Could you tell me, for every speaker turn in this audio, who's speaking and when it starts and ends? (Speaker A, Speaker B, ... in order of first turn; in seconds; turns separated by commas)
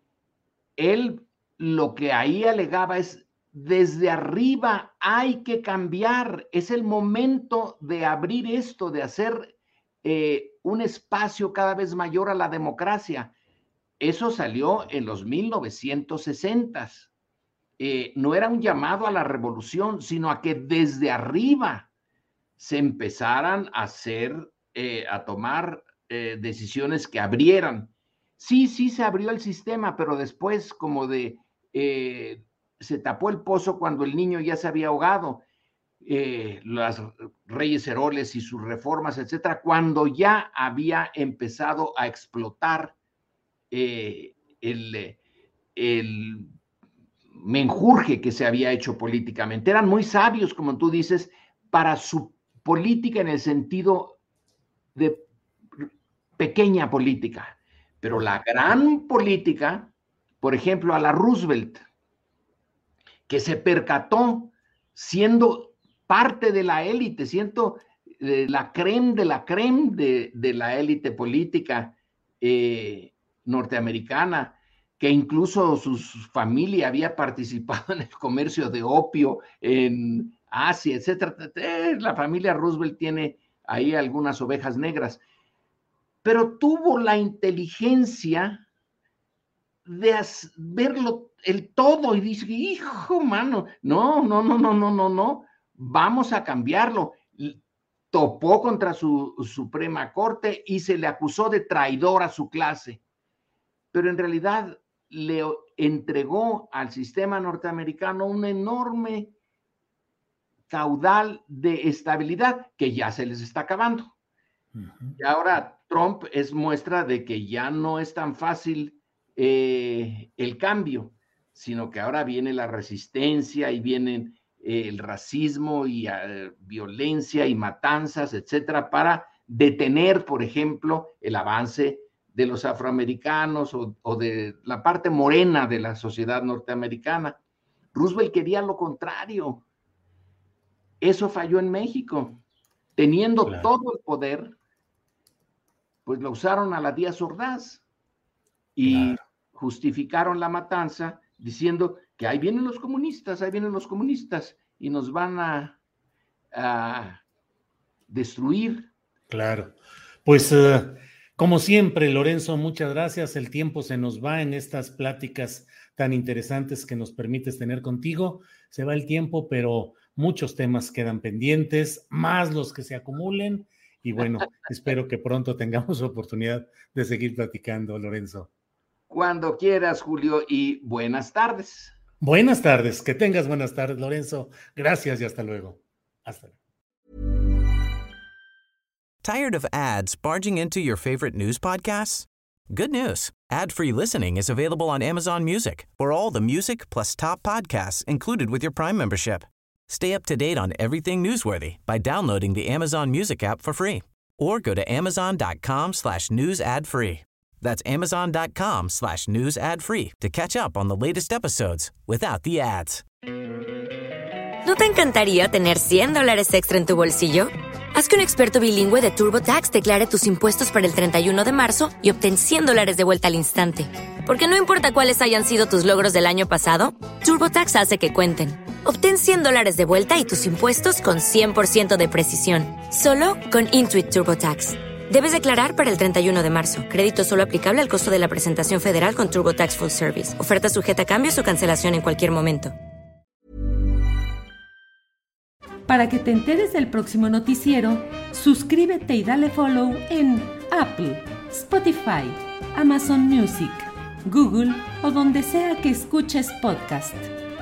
Speaker A: 0.8-13.3, Speaker A: 14.0-17.1, Speaker A: 17.8-21.9, Speaker A: 22.6-35.4, Speaker A: 36.0-43.0, Speaker A: 43.7-45.2, Speaker A: 45.8-46.5, Speaker A: 47.3-54.2, Speaker A: 55.0-55.2, Speaker A: 56.4-61.8, Speaker A: 63.3-85.2, Speaker A: 86.2-88.7, Speaker A: 89.9-97.6, Speaker A: 98.1-103.0, Speaker A: 103.9-109.3, Speaker A: 110.7-114.1, Speaker B: 114.8-115.2, Speaker A: 115.2-137.4, Speaker A: 137.9-139.6, Speaker A: 141.0-142.4, Speaker A: 143.0-144.6, Speaker B: 143.4-143.7, Speaker A: 146.1-147.8, Speaker A: 148.8-155.8, Speaker B: 148.8-149.2, Speaker A: 156.5-157.2, Speaker A: 158.1-158.9, Speaker B: 159.3-178.5, Speaker A: 179.1-181.9, Speaker B: 182.2-186.6, Speaker C: 189.2-213.0, Speaker D: 214.6-242.7, Speaker E: 245.9-257.3